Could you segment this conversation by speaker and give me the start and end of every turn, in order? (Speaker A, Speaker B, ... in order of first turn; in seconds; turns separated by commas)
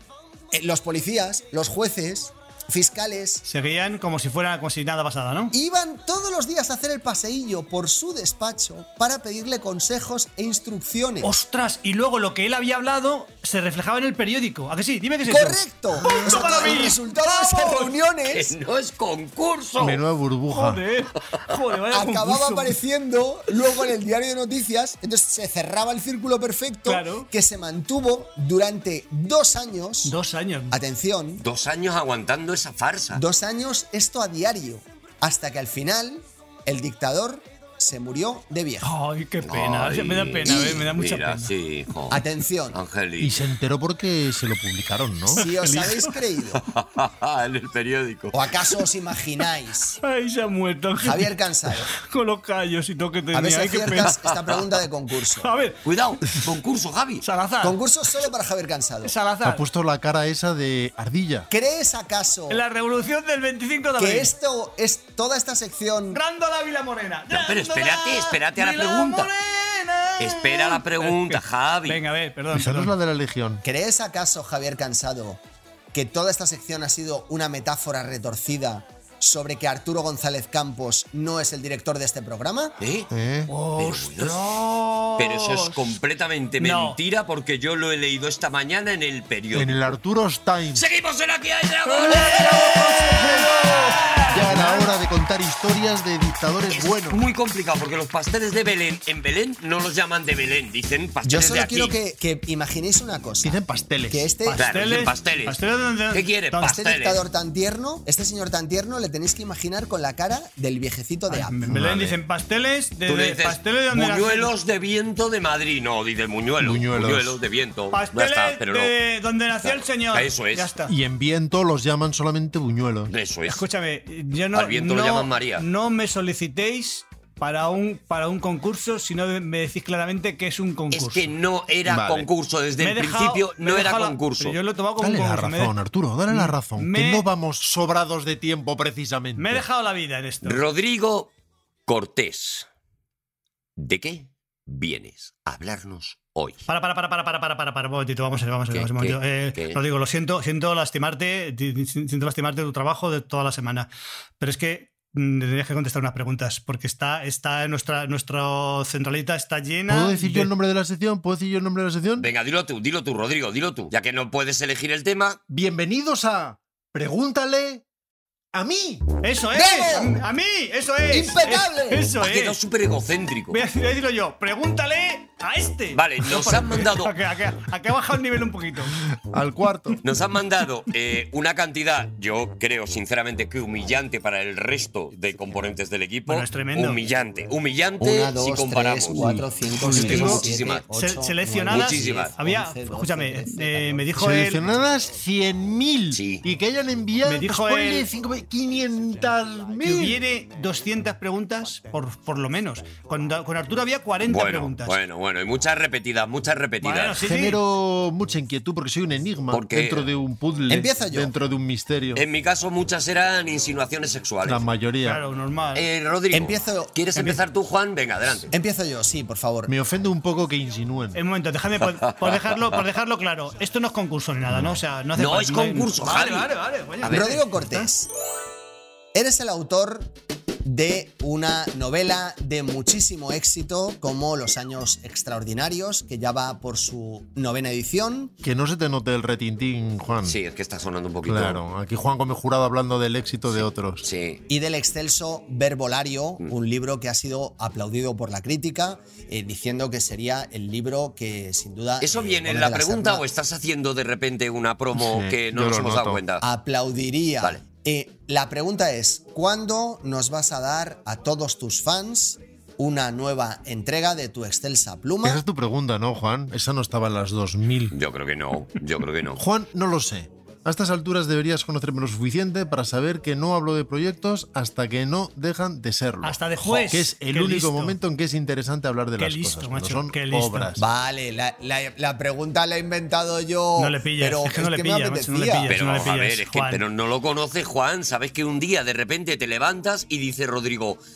Speaker A: 0.5-3.4, Speaker B: 3.5-5.5, Speaker A: 5.5-11.3, Speaker B: 11.2-17.9, Speaker A: 15.3-18.5, Speaker C: 18.3-20.0, Speaker D: 19.8-20.8, Speaker B: 20.5-22.7, Speaker A: 21.9-30.1, Speaker B: 26.9-27.3, Speaker B: 30.0-30.8, Speaker A: 30.7-31.4, Speaker C: 31.4-33.2, Speaker A: 33.1-38.9, Speaker B: 38.8-41.5, Speaker C: 39.5-43.4, Speaker A: 40.4-40.9, Speaker A: 42.1-42.8, Speaker D: 43.2-45.4, Speaker B: 45.3-46.1, Speaker A: 45.3-46.6, Speaker C: 46.7-48.5, Speaker A: 48.3-50.0, Speaker B: 50.0-51.3, Speaker A: 51.0-51.9, Speaker B: 51.9-54.1, Speaker A: 53.3-55.5, Speaker C: 54.0-54.8, Speaker B: 55.4-55.8, Speaker C: 55.8-57.2, Speaker B: 57.2-57.8, Speaker A: 57.6-59.1, Speaker B: 59.0-59.6, Speaker D: 59.4-61.5, Speaker A: 61.5-62.6, Speaker B: 62.5-64.3, Speaker A: 64.0-66.2, Speaker B: 66.1-72.9, Speaker C: 67.3-69.3, Speaker C: 70.2-72.0, Speaker D: 72.5-73.6, Speaker A: 73.6-75.4, Speaker A: 75.9-82.7, Speaker C: 82.8-83.1, Speaker D: 83.1-83.5, Speaker B: 83.5-85.9, Speaker C: 83.8-84.4, Speaker C: 85.2-89.9, Speaker B: 86.6-87.0, Speaker D: 89.5-90.8, Speaker C: 90.7-94.6, Speaker B: 91.8-94.9, Speaker D: 94.3-97.2, Speaker C: 96.7-102.0, Speaker A: 101.2-104.6, Speaker D: 103.4-104.3, Speaker B: 104.5-106.7, Speaker C: 104.6-105.6, Speaker C: 106.1-107.2, Speaker A: 106.6-111.7, Speaker B: 111.3-114.5, Speaker D: 111.7-112.2, Speaker C: 113.1-118.9, Speaker D: 116.6-117.4, Speaker B: 117.9-120.9, Speaker C: 119.6-120.7, Speaker D: 120.8-123.1, Speaker C: 123.1-123.6, Speaker B: 123.5-131.3, Speaker C: 124.5-125.6, Speaker C: 130.9-134.6, Speaker D: 131.8-132.3, Speaker B: 132.8-135.7, Speaker D: 135.0-139.6, Speaker B: 136.3-137.3, Speaker B: 139.4-140.6, Speaker C: 140.4-141.3, Speaker C: 141.9-142.7, Speaker C: 143.8-146.6, Speaker B: 146.7-153.9, Speaker C: 148.7-149.8, Speaker B: 154.4-160.5, Speaker D: 159.9-162.3, Speaker C: 162.2-165.4, Speaker D: 165.5-167.8, Speaker D: 168.5-169.0, Speaker B: 169.2-172.6, Speaker A: 169.5-170.2, Speaker A: 171.1-172.1, Speaker C: 172.2-173.6, Speaker B: 173.5-179.0, Speaker C: 175.9-177.1, Speaker D: 179.1-180.0, Speaker C: 180.0-190.8, Speaker B: 186.2-187.0, Speaker A: 188.0-194.0, Speaker D: 189.7-190.5, Speaker B: 189.9-190.4, Speaker B: 190.9-194.6, Speaker C: 191.7-192.3, Speaker D: 194.2-200.2, Speaker C: 196.1-196.4, Speaker B: 197.2-198.1, Speaker B: 199.8-205.0, Speaker C: 204.2-207.2, Speaker B: 206.8-207.6, Speaker D: 207.2-212.2, Speaker C: 209.5-210.1, Speaker A: 210.7-211.3, Speaker C: 212.1-214.7, Speaker D: 214.4-215.2, Speaker B: 215.0-215.9, Speaker C: 215.7-218.5, Speaker A: 216.3-217.4, Speaker A: 218.5-219.7, Speaker D: 219.7-221.2, Speaker B: 221.1-227.8, Speaker C: 222.0-222.8, Speaker D: 224.5-224.8, Speaker C: 225.1-226.5, Speaker C: 227.0-227.4, Speaker A: 227.0-228.1, Speaker A: 229.1-230.1, Speaker A: 230.6-238.3, Speaker D: 238.4-240.4, Speaker C: 240.2-241.6, Speaker D: 241.2-244.1, Speaker C: 243.5-244.4, Speaker A: 244.5-253.2, Speaker C: 252.0-256.4, Speaker D: 254.9-256.2, Speaker A: 256.4-265.4, Speaker D: 265.2-268.0, Speaker C: 267.9-269.4, Speaker D: 269.4-280.8, Speaker B: 276.2-277.9, Speaker B: 279.2-280.7, Speaker A: 280.8-285.7, Speaker B: 283.8-286.8, Speaker C: 285.7-291.0